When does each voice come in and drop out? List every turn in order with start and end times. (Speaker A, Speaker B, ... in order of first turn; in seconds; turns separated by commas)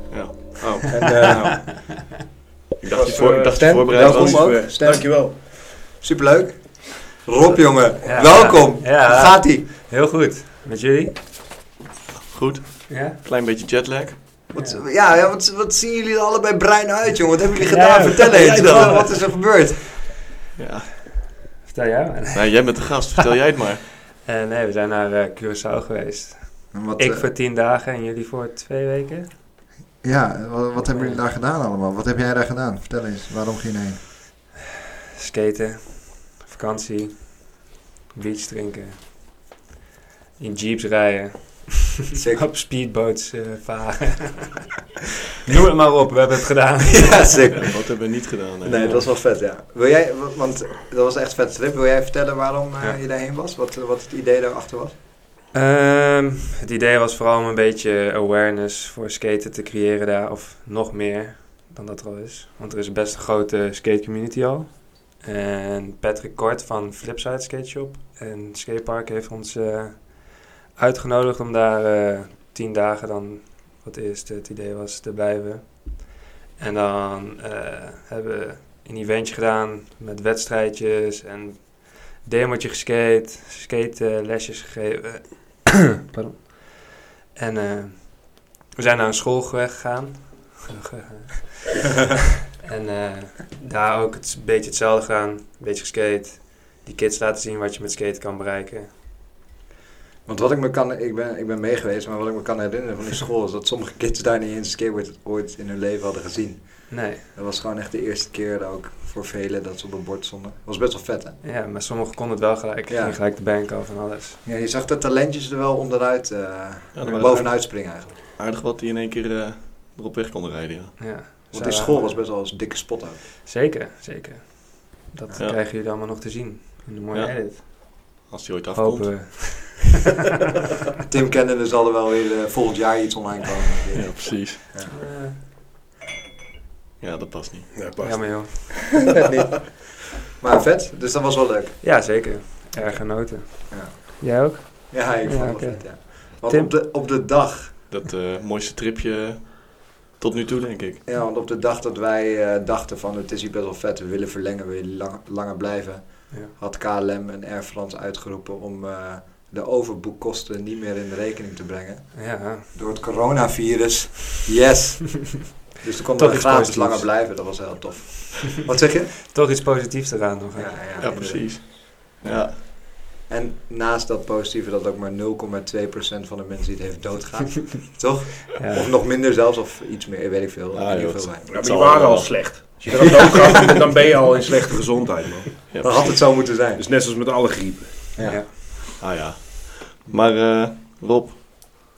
Speaker A: 0.1-1.0, Speaker B: 0.6-1.5, Speaker C: 0.9-2.0, Speaker D: 1.2-1.8, Speaker A: 2.8-4.6, Speaker B: 2.9-5.3, Speaker C: 3.2-9.7, Speaker D: 8.0-11.2, Speaker A: 12.3-14.4, Speaker D: 12.9-13.2, Speaker C: 14.5-20.1, Speaker D: 14.5-14.8, Speaker D: 17.6-19.5, Speaker A: 18.3-19.0, Speaker A: 20.6-21.2, Speaker D: 21.6-23.0, Speaker A: 22.3-23.8, Speaker D: 24.2-29.3, Speaker C: 26.7-27.3, Speaker C: 30.0-34.1, Speaker D: 30.7-31.2, Speaker D: 35.1-39.1, Speaker D: 40.4-44.6, Speaker C: 42.1-42.5, Speaker D: 45.4-47.5, Speaker C: 46.9-48.0, Speaker A: 47.5-49.0, Speaker C: 48.6-54.9, Speaker D: 48.7-49.0, Speaker D: 55.5-92.0, Speaker D: 92.6-98.9, Speaker C: 100.2-111.4, Speaker D: 106.9-107.2, Speaker D: 111.4-114.4, Speaker C: 112.9-113.2, Speaker C: 114.4-118.2, Speaker A: 116.9-117.8, Speaker A: 118.3-121.0, Speaker D: 121.0-122.2, Speaker C: 121.5-123.2, Speaker D: 123.4-127.6, Speaker A: 127.1-129.5, Speaker D: 128.8-129.9, Speaker C: 131.1-135.0, Speaker A: 133.9-134.6, Speaker D: 134.9-135.4, Speaker A: 137.0-137.8, Speaker B: 137.8-138.8, Speaker D: 138.0-139.0, Speaker C: 139.0-141.8, Speaker D: 141.8-146.7, Speaker C: 143.7-147.8, Speaker A: 147.9-151.0, Speaker C: 151.0-169.1, Speaker D: 162.1-162.7, Speaker D: 166.2-167.1, Speaker D: 169.3-171.3, Speaker C: 170.5-171.7, Speaker A: 171.0-172.6, Speaker C: 173.2-181.5, Speaker D: 178.6-178.9, Speaker A: 180.7-183.1, Speaker B: 181.5-185.7, Speaker A: 185.7-186.1, Speaker C: 185.8-186.8, Speaker B: 186.7-188.1, Speaker C: 188.1-188.5, Speaker D: 188.2-188.5, Speaker A: 189.0-191.8